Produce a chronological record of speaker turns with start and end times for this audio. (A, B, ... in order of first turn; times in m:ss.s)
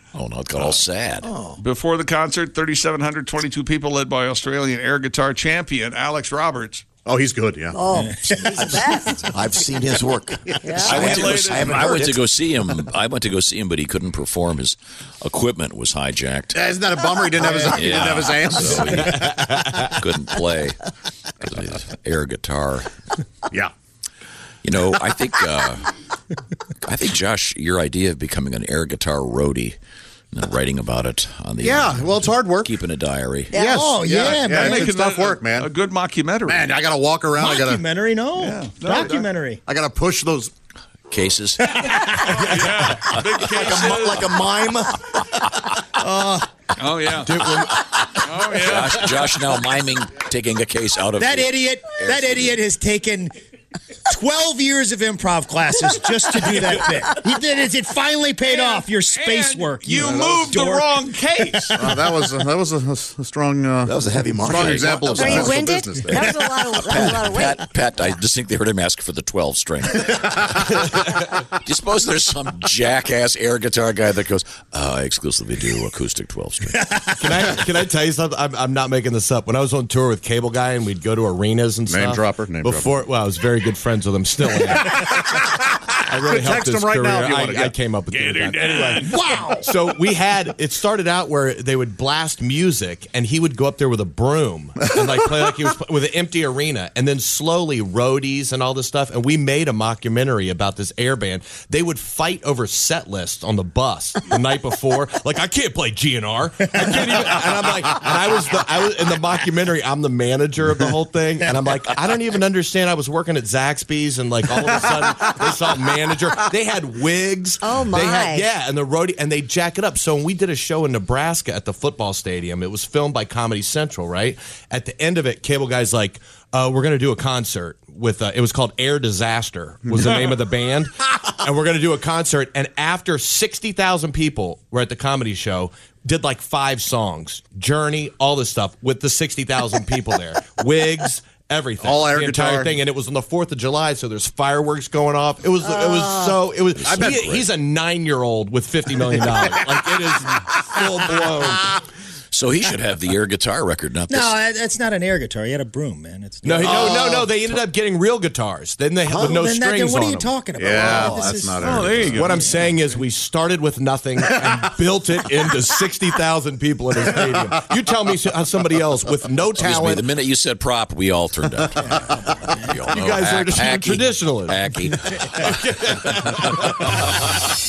0:00.1-0:01.3 A
0:01.6-0:06.8 B
0:07.1-0:07.8 C
0:07.7-0:09.2 D
0:07.9-0:09.0 E
0:09.3-0:12.2 F
0:10.6-0:11.0 D
0:10.7-0:12.0 B
0:11.0-0:16.6 A
0:16.5-0:19.4 C
0:17.6-0:20.8 A
0:19.1-0:19.9 G
0:21.4-0:22.9 A
0:24.6-0:25.9 A
0:26.8-0:29.8 A
0:30.3-0:33.6 A
0:31.6-0:32.8 C
0:33.5-0:33.8 D
0:33.5-0:35.7 C
0:33.6-0:34.9 E
0:34.6-0:36.7 B
0:36.5-0:37.8 C
0:37.3-0:39.6 E
0:38.4-0:39.3 B
0:39.7-0:40.5 C
0:41.1-0:42.1 A
0:41.6-0:42.1 E
0:42.2-0:44.4 B
0:42.9-0:44.4 A
0:43.7-0:44.6 F
0:46.0-0:46.5 E
0:46.8-0:47.3 B
0:47.2-0:47.8 G
0:48.2-0:49.2 B
0:48.6-0:52.6 A
0:51.2-0:53.3 E
0:54.1-1:01.0 E
0:58.5-1:01.8 B
1:00.0-1:00.5 C
1:01.7-1:06.5 C
1:03.9-1:05.1 F
1:04.5-1:05.5 A
1:05.1-1:07.6 D
1:06.7-1:17.0 A
1:17.2-1:25.3 G
1:21.9-1:23.1 C
1:26.1-2:31.8 G
1:26.3-1:27.8 C
1:28.1-1:29.3 B
1:29.1-1:29.7 E
1:46.9-1:47.2 E
1:57.6-1:58.5 D
2:21.8-2:22.8 C
2:25.6-2:26.4 D
2:26.7-2:27.5 A
2:26.9-2:27.3 C
2:29.1-2:29.9 C
2:32.3-2:34.4 A
2:34.1-2:37.3 E
2:36.4-2:40.4 G
2:36.7-2:37.0 C
2:39.1-2:41.9 E
2:40.6-2:42.2 C
2:41.6-2:42.8 B
2:42.0-2:50.1 G
2:49.5-2:55.6 A
2:52.9-2:56.8 G
2:56.2-2:57.1 A